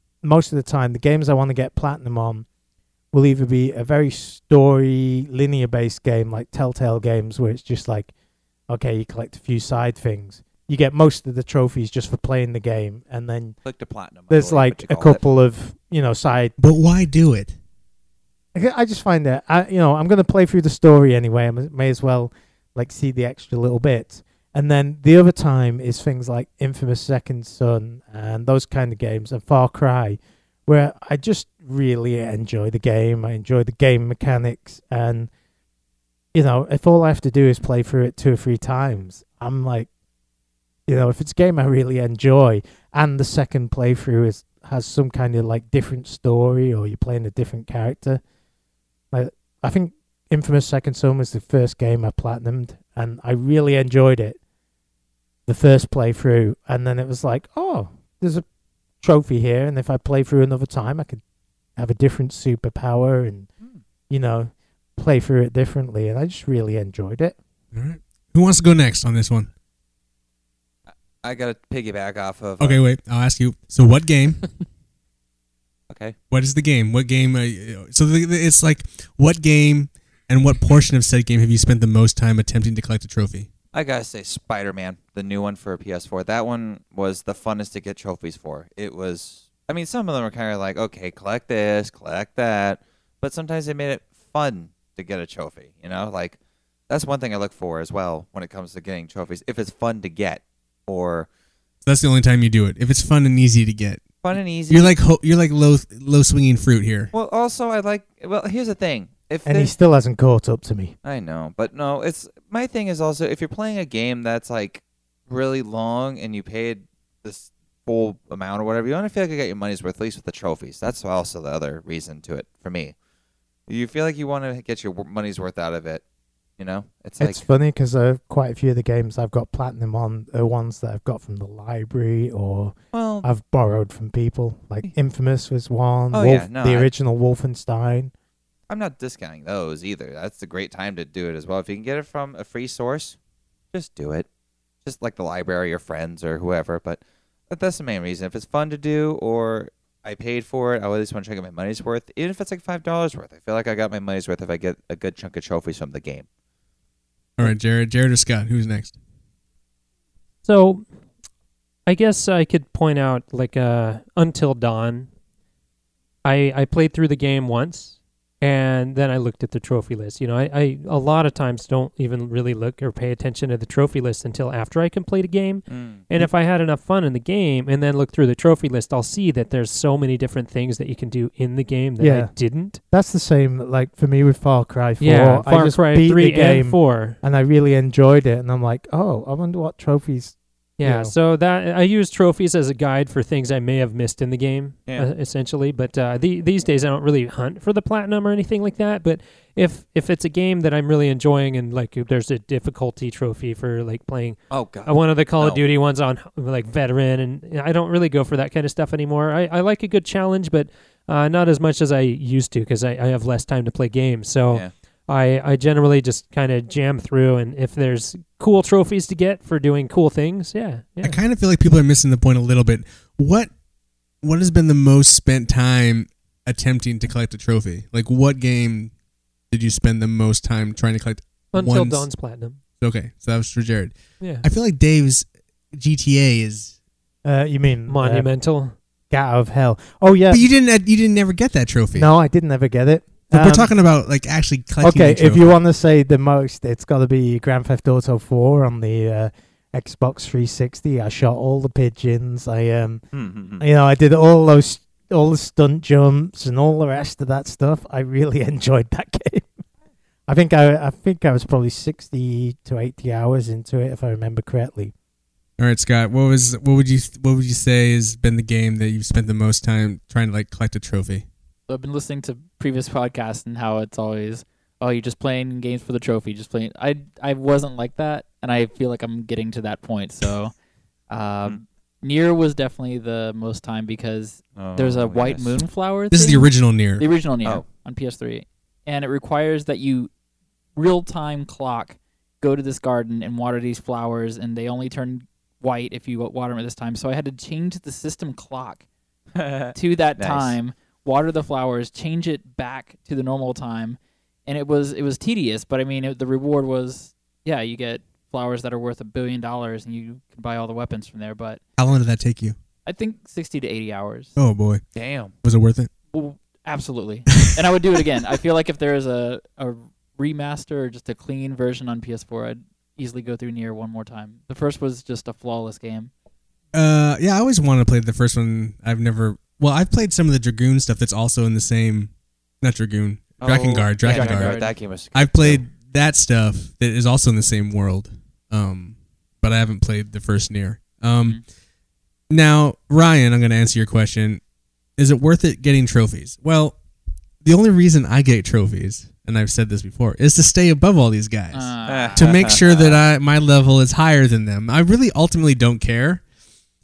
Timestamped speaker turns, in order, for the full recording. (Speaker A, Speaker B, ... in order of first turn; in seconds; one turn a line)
Speaker A: 0.2-2.5
Speaker A: 3.1-8.1
Speaker A: 8.7-13.6
Speaker B: 13.6-15.2
Speaker A: 14.3-16.5
Speaker C: 16.6-17.6
Speaker A: 18.5-35.3
Speaker A: 36.3-39.9
Speaker A: 40.9-48.2
Speaker A: 49.1-54.4
Speaker A: 55.5-58.5
Speaker A: 59.0-61.2
Speaker A: 61.8-63.5
Speaker A: 64.1-67.4
Speaker C: 67.7-69.5
Speaker B: 71.2-72.8
Speaker C: 72.6-74.4
Speaker B: 75.9-76.2
Speaker C: 76.3-83.5
Speaker B: 83.7-96.4
Speaker B: 96.9-101.3
Speaker C: 101.8-104.1
Speaker B: 104.2-105.0
Speaker C: 104.7-107.1
Speaker B: 107.1-109.7
Speaker A: 109.5-111.0
Speaker B: 111.0-123.0
Speaker B: 123.7-126.0
Speaker B: 126.6-127.4
Speaker A: 127.2-138.1
Speaker B: 132.9-133.3
Speaker B: 136.1-136.9
Speaker B: 138.7-143.2
Speaker B: 143.7-144.3
Speaker B: 144.8-156.2
Speaker C: 157.4-159.0
Speaker D: 160.4-160.8
Speaker D: 161.9-165.1
Speaker D: 166.2-182.8
Speaker B: 175.7-176.0
Speaker A: 182.0-182.3
Speaker A: 182.9-191.1
Speaker D: 185.0-187.2
Speaker D: 190.8-221.2
Speaker B: 204.5-205.6
Speaker C: 221.0-223.5
Speaker C: 224.2-228.9
Speaker C: 229.5-232.1
Speaker D: 231.5-232.6
Speaker C: 232.8-236.7
Speaker D: 234.2-234.5
Speaker A: 237.2-238.3
Speaker D: 237.9-238.8
Speaker A: 239.1-240.4
Speaker C: 240.3-242.1
Speaker A: 241.9-243.7
Speaker C: 243.3-245.5
Speaker A: 244.8-253.0
Speaker B: 253.1-253.7
Speaker A: 253.6-259.5
Speaker A: 260.3-264.9
Speaker C: 265.6-271.2
Speaker E: 271.7-280.5
Speaker E: 281.1-290.1
Speaker B: 284.6-285.6
Speaker C: 286.1-287.0
Speaker E: 290.8-298.9
Speaker B: 299.4-300.6
Speaker E: 299.7-311.6
Speaker C: 311.8-312.6
Speaker E: 312.9-314.4
Speaker C: 314.4-314.8
Speaker B: 314.9-315.4
Speaker C: 315.4-315.9
Speaker E: 316.1-326.1
Speaker C: 317.3-317.6
Speaker C: 326.7-334.6
Speaker B: 333.4-335.6
Speaker E: 334.0-334.7
Speaker C: 335.1-341.4
Speaker C: 342.3-344.4
Speaker C: 345.0-346.8
Speaker C: 347.4-356.2
Speaker E: 351.5-352.3
Speaker B: 351.9-353.0